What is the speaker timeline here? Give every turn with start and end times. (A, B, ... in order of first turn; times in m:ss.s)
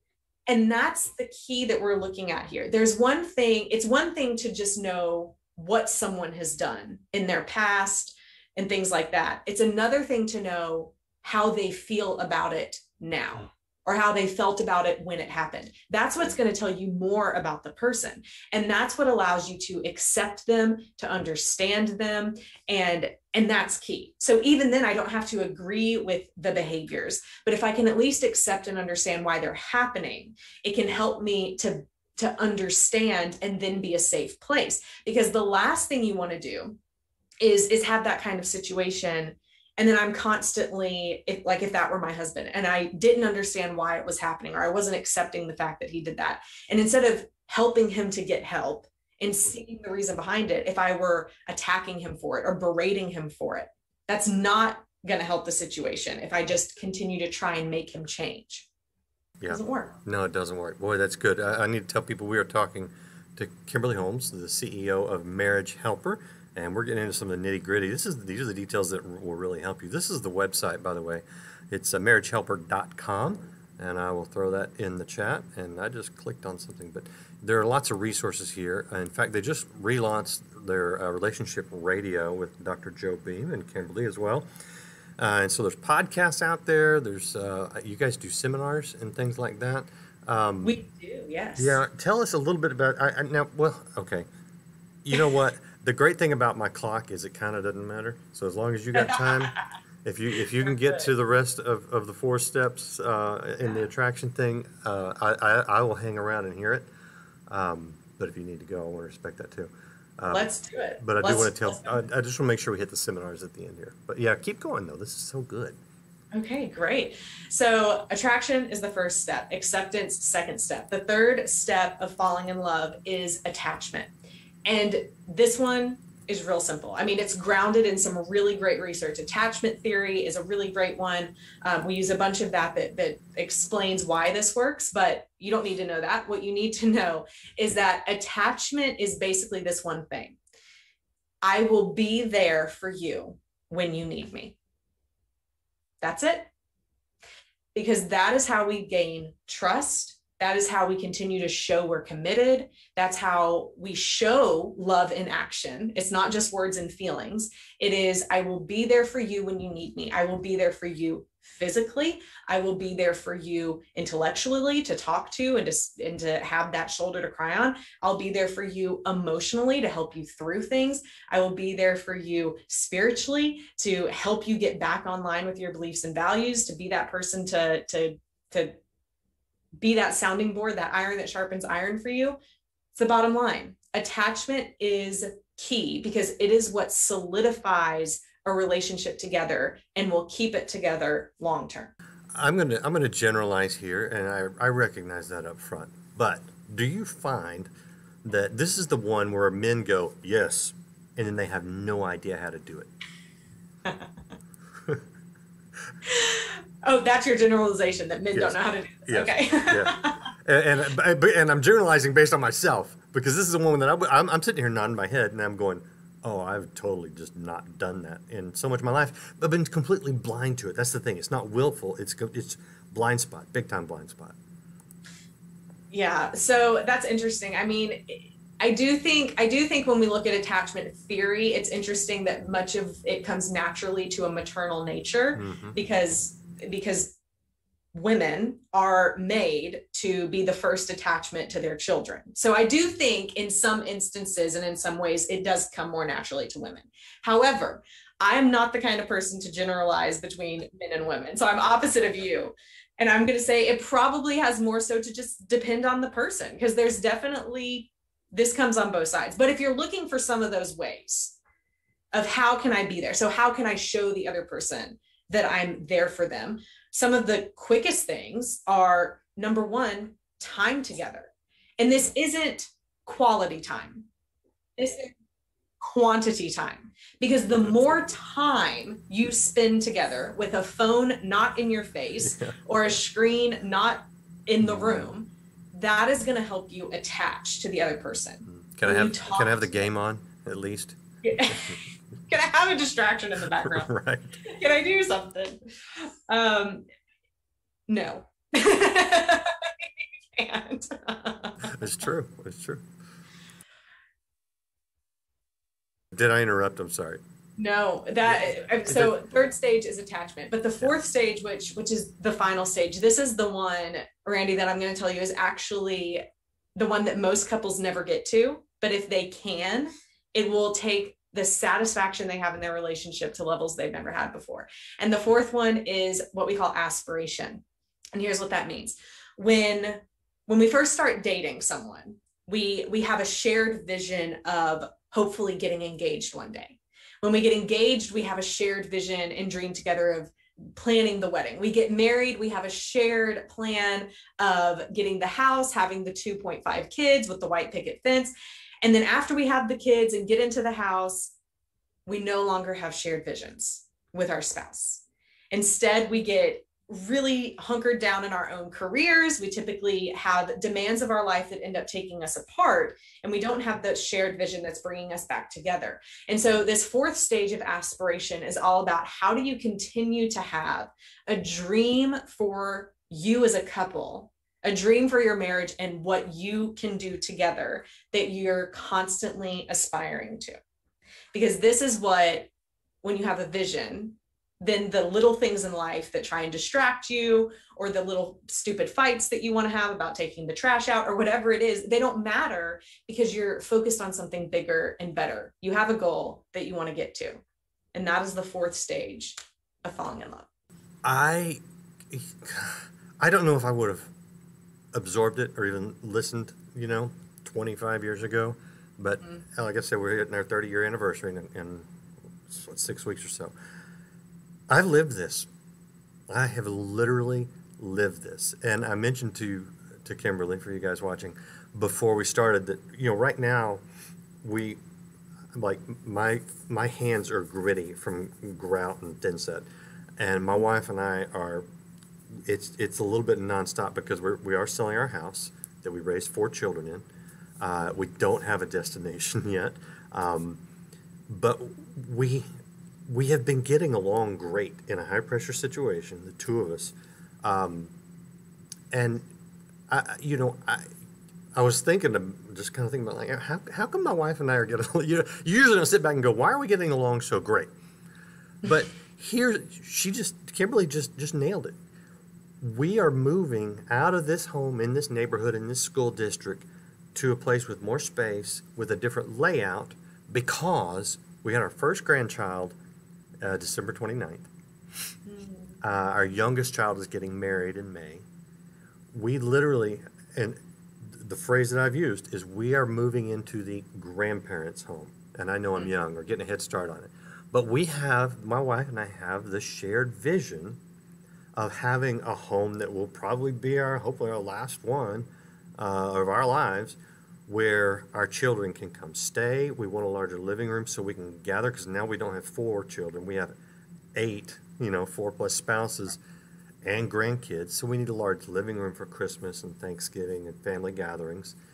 0:00.5-0:36.8 A
0:37.4-0:58.7 A
0:59.4-1:24.5 B
0:59.5-0:59.9 A
1:25.2-1:30.8 B
1:30.6-1:31.8 A
1:31.6-1:34.3 B
1:35.0-1:46.9 B
1:38.9-1:39.6 A
1:40.6-1:41.1 A
1:47.5-1:50.5 B
1:50.3-1:52.0 A
1:51.0-1:55.8 B
1:56.3-2:04.1 A
2:04.7-2:20.4 A
2:21.4-2:24.6 A
2:26.0-2:26.5 A
2:27.8-2:58.8 A
2:59.8-3:02.4 A
3:02.9-3:11.9 A
3:12.4-3:17.7 B
3:18.2-3:22.9 B
3:23.8-3:24.1 A
3:26.0-3:30.2 A
3:28.3-3:44.4 B
3:45.9-3:57.2 A
3:55.4-3:55.8 B
3:57.9-4:21.4 A
4:22.1-4:34.1 A
4:34.8-4:35.1 A
4:35.8-4:49.8 A
4:42.2-4:42.6 B
4:44.6-4:45.1 B
4:48.5-4:51.8 B
4:51.2-4:53.9 A
4:53.5-4:54.4 B
4:54.4-4:56.9 A
4:57.9-5:01.7 A
5:01.6-5:02.8 B
5:06.1-5:07.2 B
5:07.6-5:16.2 A
5:16.8-5:27.6 A
5:28.1-5:48.3 A
5:48.8-5:51.3 A
5:52.1-6:20.6 A
6:21.3-6:22.5 A
6:23.0-6:37.4 A
6:37.9-6:40.5 A
6:41.0-6:41.6 B
6:42.1-6:44.1 B
6:44.9-6:51.9 B
6:52.5-6:53.5 B
6:54.7-6:55.5 B
6:56.3-7:03.8 B
7:04.4-7:04.8 B
7:05.5-7:09.7 B
7:10.2-7:11.6 B
7:12.4-7:17.0 B
7:17.6-7:20.6 B
7:21.3-7:22.5 B
7:23.1-7:27.9 B
7:28.9-7:29.3 B
7:29.9-7:30.9 B
7:31.5-7:37.7 B
7:38.6-7:41.8 B
7:42.6-7:52.8 B
7:53.4-7:54.5 B
7:55.3-7:55.8 A
7:55.8-7:58.2 B
7:59.1-8:10.8 B
8:11.6-8:15.3 B
8:15.8-8:23.5 B
8:24.2-8:26.2 B
8:26.8-8:31.6 B